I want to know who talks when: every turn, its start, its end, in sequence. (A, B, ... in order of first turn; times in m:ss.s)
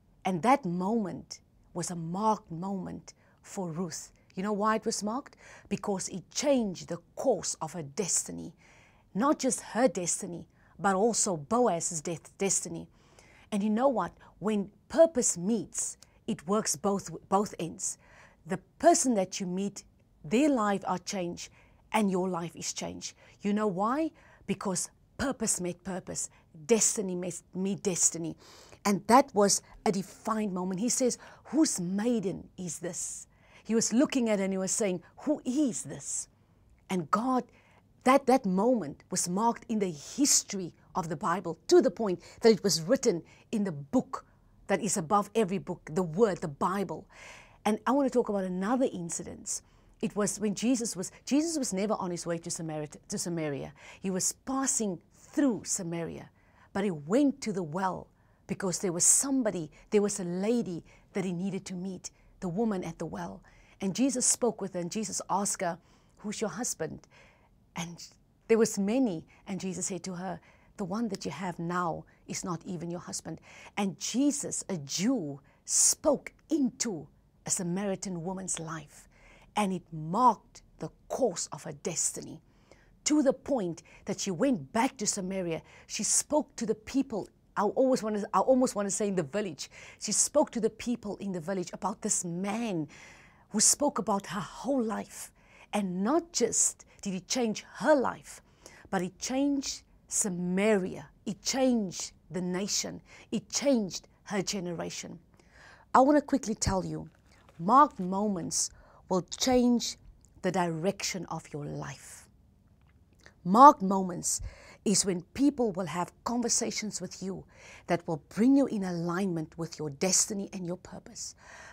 0:00.2-0:08.6 A
0:09.1-0:12.9 A
0:13.5-0:36.3 A
0:36.9-0:37.5 A
0:38.0-0:47.1 A
0:47.6-1:07.1 A
1:07.8-1:22.4 A
1:23.0-1:32.9 A
1:33.5-1:45.2 A
1:45.9-1:52.3 A
1:53.4-2:01.4 A